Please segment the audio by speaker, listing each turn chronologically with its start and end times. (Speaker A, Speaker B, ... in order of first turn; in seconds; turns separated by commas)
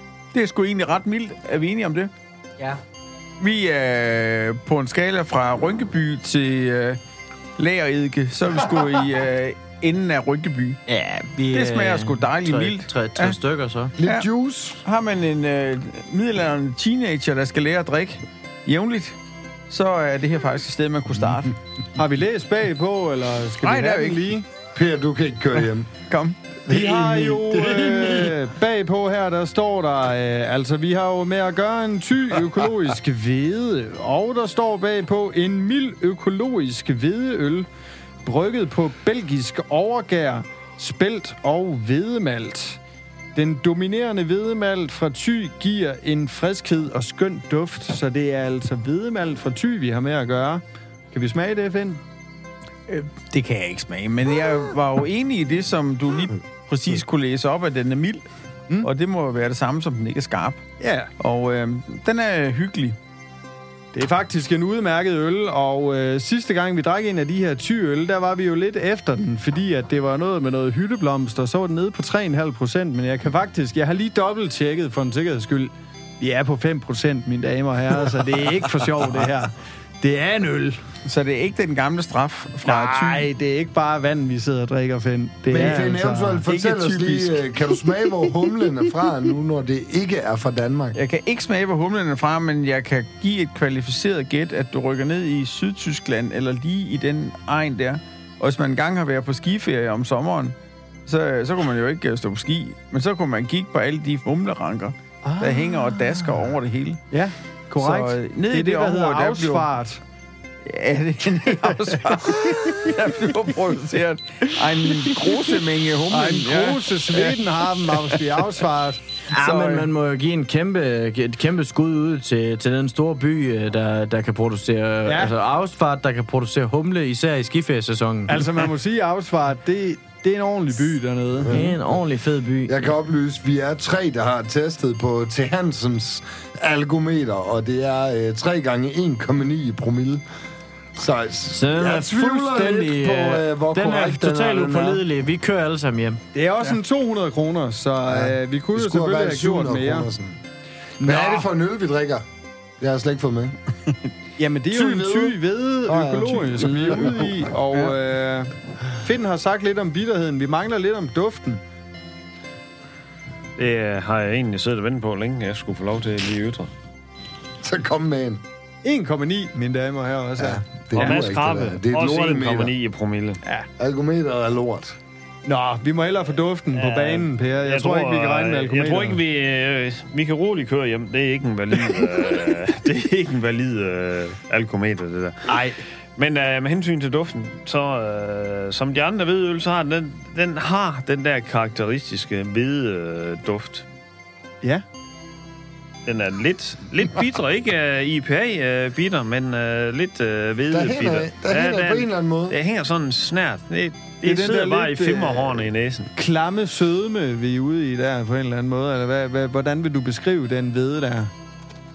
Speaker A: 0.3-2.1, Speaker A: 3.4-7.0, Speaker A: 7.6-10.8, Speaker B: 10.9-13.9, Speaker A: 11.5-13.4, Speaker C: 14.0-14.8, Speaker A: 14.8-19.1, Speaker A: 19.7-21.5, Speaker D: 21.9-24.4, Speaker A: 23.6-24.4, Speaker C: 24.7-25.9, Speaker A: 26.1-26.4, Speaker C: 26.7-28.4, Speaker D: 26.7-37.7, Speaker D: 38.2-42.8, Speaker D: 43.3-52.0, Speaker A: 52.9-58.2, Speaker A: 58.8-60.6, Speaker D: 60.8-61.1, Speaker A: 61.2-63.0, Speaker D: 63.9-80.8, Speaker A: 81.1-83.3, Speaker D: 82.6-88.5, Speaker C: 85.5-91.0, Speaker A: 90.9-100.5, Speaker A: 101.1-107.0, Speaker D: 105.2-106.3, Speaker D: 107.1-110.0, Speaker A: 107.8-109.7, Speaker A: 110.7-118.5, Speaker D: 111.6-112.1, Speaker D: 116.1-119.0, Speaker B: 119.3-128.5, Speaker A: 119.3-119.9, Speaker D: 125.1-125.3, Speaker D: 128.3-131.6, Speaker C: 131.4-132.0, Speaker B: 131.5-132.9, Speaker C: 132.7-140.2, Speaker C: 140.9-145.0, Speaker B: 141.5-146.2, Speaker D: 146.3-150.1, Speaker C: 148.1-150.4, Speaker C: 151.0-152.2, Speaker D: 151.0-151.5, Speaker C: 152.8-153.6, Speaker D: 154.4-161.6, Speaker C: 154.7-157.4, Speaker E: 163.6-166.7, Speaker C: 167.6-168.4, Speaker D: 168.8-171.3, Speaker C: 170.4-172.7, Speaker E: 170.9-173.4, Speaker C: 173.8-174.9, Speaker D: 175.4-179.2, Speaker E: 176.7-185.6, Speaker D: 185.5-185.8, Speaker E: 186.2-193.9, Speaker E: 196.1-206.1, Speaker C: 200.7-202.6, Speaker D: 204.2-211.3